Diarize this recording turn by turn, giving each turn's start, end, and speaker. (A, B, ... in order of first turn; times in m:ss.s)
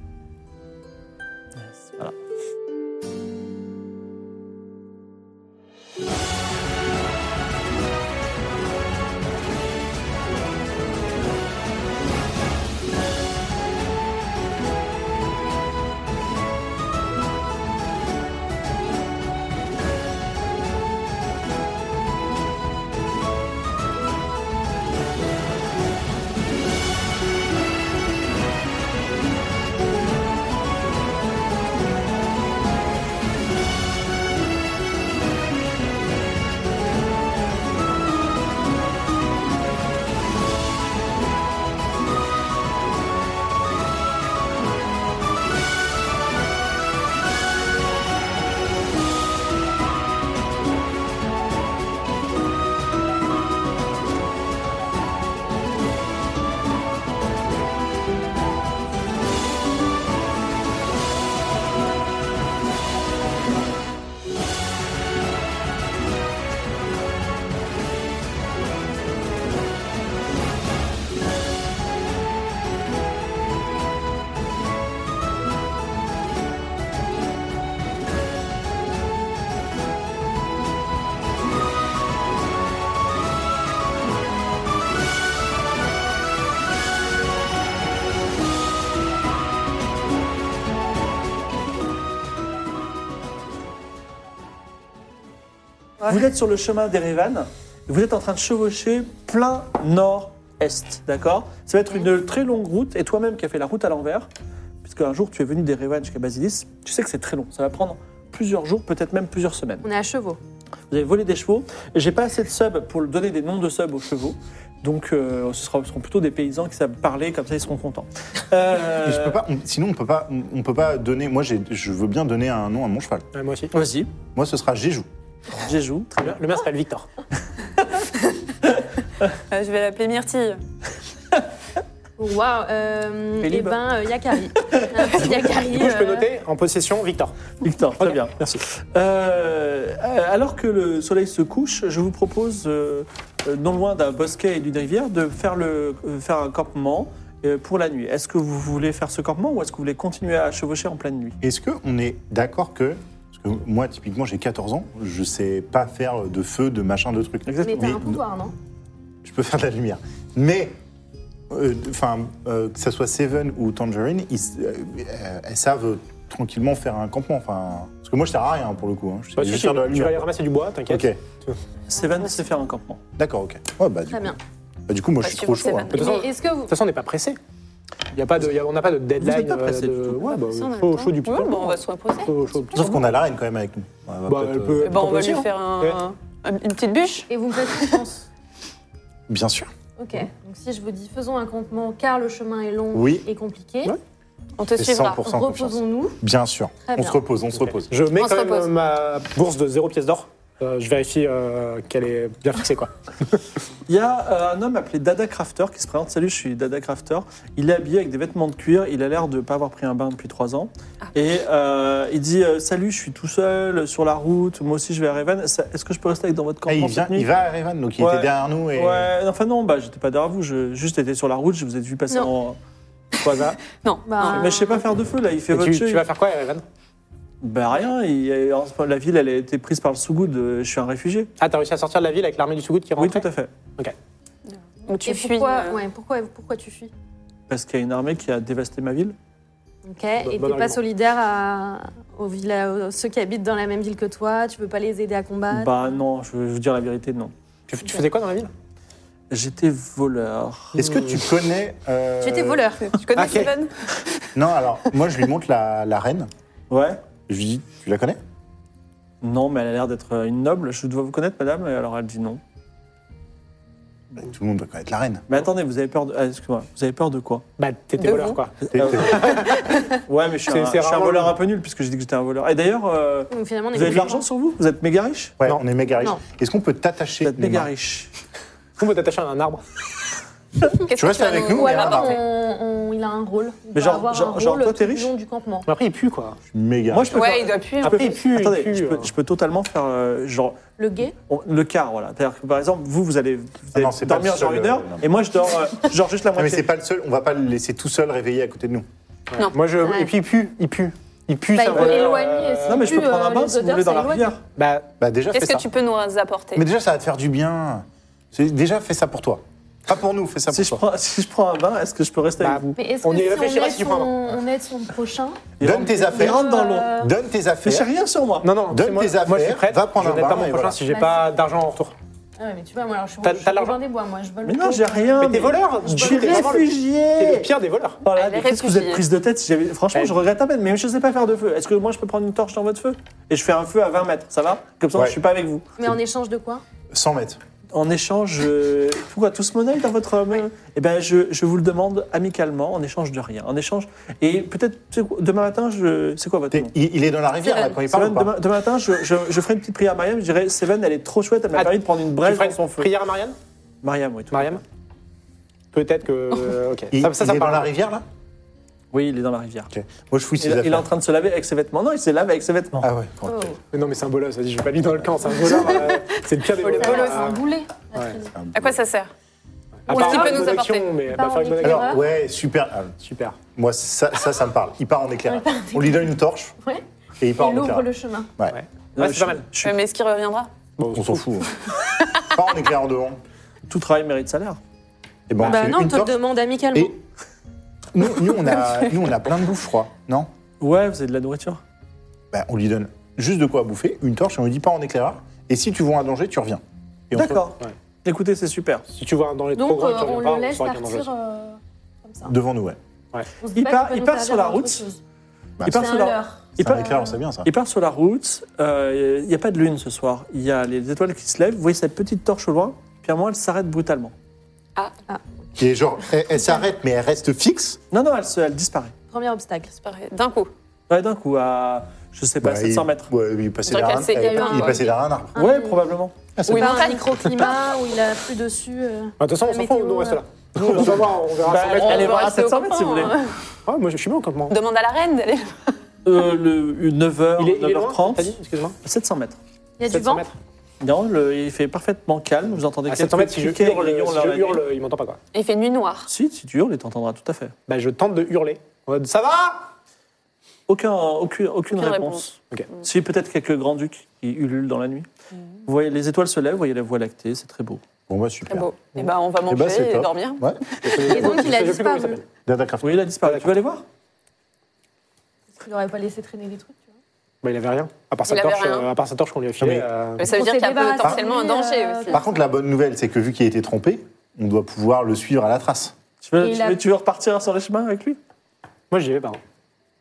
0:01.6-0:02.1 A
1:36.1-1:44.3 A
1:44.8-1:49.9 A
1:49.8-1:50.4 B
1:50.9-1:59.4 A
1:59.0-2:03.3 C
2:03.3-2:03.8 D
2:03.7-2:04.1 A
2:04.4-2:05.1 C
2:05.6-2:06.4 A
2:06.2-2:07.1 D
2:09.5-2:10.6 E
2:12.2-2:16.3 B
2:13.4-2:13.8 A
2:14.7-2:15.1 A
2:15.3-2:17.4 D
2:17.6-2:31.4 A
2:18.0-2:18.6 D
2:31.4-2:38.2 C
2:37.5-2:38.0 A
2:37.6-2:38.5 B
2:39.2-2:40.8 C
2:41.5-2:50.3 C
2:49.4-2:51.6 D
2:50.9-2:51.2 C
2:51.9-2:53.0 A
2:53.2-2:54.4 C
2:54.1-2:54.4 B
2:54.9-2:55.9 C
2:55.2-2:56.3 E
2:55.9-2:56.7 B
2:55.9-2:57.4 D
2:58.1-3:03.1 D
2:59.2-3:00.4 A
3:00.4-3:02.3 E
3:02.7-3:05.0 C
3:04.3-3:06.0 D
3:04.8-3:08.0 E
3:07.3-3:08.3 B
3:09.3-3:09.7 C
3:10.0-3:14.0 B
3:12.9-3:13.3 C
3:14.6-3:15.2 E
3:14.8-3:17.9 C
3:15.2-3:16.2 B
3:16.8-3:17.2 B
3:17.9-3:23.4 D
3:18.1-3:18.7 E
3:23.9-3:37.3 A
3:36.7-3:39.1 C
3:38.0-3:42.6 A
3:43.2-3:43.6 A
3:43.2-3:43.6 D
3:43.7-3:44.5 E
3:44.1-3:44.8 B
3:44.3-3:46.1 A
3:45.5-3:46.6 D
3:47.4-3:51.3 A
3:51.4-3:53.3 D
3:53.0-3:53.5 A
3:54.5-3:55.8 E
3:55.0-3:56.9 B
3:57.5-3:59.2 A
3:59.8-4:05.8 B
4:00.2-4:00.8 D
4:05.5-4:07.3 A
4:07.7-4:08.5 D
4:09.3-4:11.0 A
4:10.8-4:12.6 C
4:12.2-4:12.9 B
4:12.8-4:13.7 E
4:13.1-4:13.6 D
4:14.4-4:16.3 C
4:16.7-4:17.0 A
4:17.3-4:18.2 C
4:19.2-4:22.4 A
4:24.2-4:25.3 C
4:25.3-4:27.5 A
4:27.6-4:29.7 D
4:28.0-4:28.4 E
4:28.6-4:35.4 A
4:28.7-4:29.2 C
4:30.5-4:31.4 D
4:33.3-4:34.2 B
4:35.4-4:37.7 C
4:37.2-4:38.1 A
4:38.8-4:39.6 D
4:40.8-4:42.2 E
4:41.0-4:42.2 C
4:41.5-4:45.7 B
4:43.8-4:45.1 A
4:45.7-4:46.4 D
4:46.5-4:47.3 C
4:46.9-4:50.6 A
4:47.1-4:48.1 E
4:47.8-4:49.1 D
4:50.8-4:51.1 B
4:51.3-4:56.7 A
4:53.7-4:55.1 C
4:56.4-4:58.9 C
4:59.3-5:02.9 D
4:59.8-5:00.1 B
5:01.5-5:04.3 B
5:01.7-5:04.4 A
5:04.6-5:04.9 D
5:05.0-5:05.7 C
5:05.3-5:06.6 E
5:06.6-5:10.8 C
5:10.5-5:12.8 A
5:12.4-5:14.1 D
5:12.8-5:15.4 B
5:15.6-5:16.9 A
5:15.6-5:17.9 C
5:16.0-5:17.1 B
5:17.6-5:18.5 A
5:18.4-5:22.0 D
5:18.7-5:20.8 C
5:20.9-5:21.3 B
5:22.4-5:26.6 B
5:23.2-5:23.8 D
5:24.4-5:27.5 A
5:25.2-5:28.0 D
5:28.0-5:35.7 A
5:28.1-5:29.0 E
5:35.8-5:36.6 B
5:36.9-5:37.4 C
5:37.7-5:46.7 A
5:46.5-5:48.4 C
5:47.8-5:52.9 A
5:51.5-5:53.4 D
5:53.8-5:54.6 A
5:54.3-5:54.6 D
5:55.7-5:57.7 D
5:56.9-5:58.0 C
5:58.9-5:59.7 A
5:59.7-6:00.9 C
6:00.4-6:02.9 A
6:02.8-6:03.5 C
6:03.3-6:03.6 B
6:03.7-6:07.4 D
6:05.4-6:06.0 E
6:06.6-6:07.3 E
6:06.7-6:08.3 B
6:08.3-6:08.8 C
6:08.5-6:09.1 E
6:09.9-6:12.0 D
6:09.9-6:12.0 B
6:09.9-6:10.9 E
6:11.6-6:13.0 C
6:13.0-6:13.4 D
6:13.5-6:16.6 C
6:15.3-6:16.1 B
6:17.2-6:18.6 C
6:17.4-6:18.3 B
6:18.5-6:19.5 D
6:19.0-6:19.8 A
6:19.6-6:20.5 E
6:20.8-6:21.3 D
6:20.9-6:21.5 C
6:22.3-6:23.2 C
6:23.7-6:24.6 A
6:25.3-6:26.2 C
6:25.4-6:27.0 B
6:27.9-6:30.3 C
6:30.6-6:31.6 A
6:32.3-6:37.4 C
6:37.1-6:38.9 A
6:38.9-6:41.1 D
6:39.6-6:42.3 B
6:42.3-6:42.8 C
6:43.4-6:45.0 B
6:43.6-6:44.8 A
6:45.6-6:45.9 C
6:45.6-6:54.1 A
6:45.7-6:47.2 B
6:46.6-6:47.5 C
6:55.6-6:57.8 C
6:56.3-6:56.6 B
6:57.9-6:58.9 A
6:59.1-6:59.8 B
6:59.8-7:00.5 E
7:00.9-7:03.1 A
7:02.4-7:05.4 C
7:03.7-7:04.9 E
7:04.1-7:05.8 B
7:05.4-7:06.3 A
7:06.4-7:06.8 C
7:06.5-7:07.5 E
7:06.5-7:10.2 B
7:09.2-7:12.3 D
7:10.6-7:13.2 A
7:11.6-7:13.3 E
7:13.7-7:14.6 D
7:14.5-7:15.7 E
7:16.0-7:19.4 A
7:17.4-7:18.8 D
7:19.8-7:20.3 B
7:19.9-7:20.4 D
7:20.8-7:24.6 A
7:22.9-7:25.2 D
7:25.3-7:26.1 E
7:26.1-7:27.6 A
7:27.7-7:29.7 D
7:30.7-7:35.1 A
7:31.7-7:32.2 E
7:35.7-7:37.8 A
7:38.1-7:38.7 C
7:38.5-7:41.1 E
7:39.5-7:40.6 C
7:40.8-7:42.2 D
7:41.0-7:42.2 B
7:42.5-7:43.1 C
7:42.8-7:43.8 A
7:43.2-7:43.5 D
7:45.6-7:46.9 B
7:47.4-7:50.3 D
7:48.3-7:48.9 E
7:49.6-7:49.9 C
7:50.2-7:52.2 E
7:50.2-7:52.2 B
7:52.1-7:56.0 C
7:56.2-7:58.2 A
7:56.4-7:56.8 B
7:58.9-7:59.4 D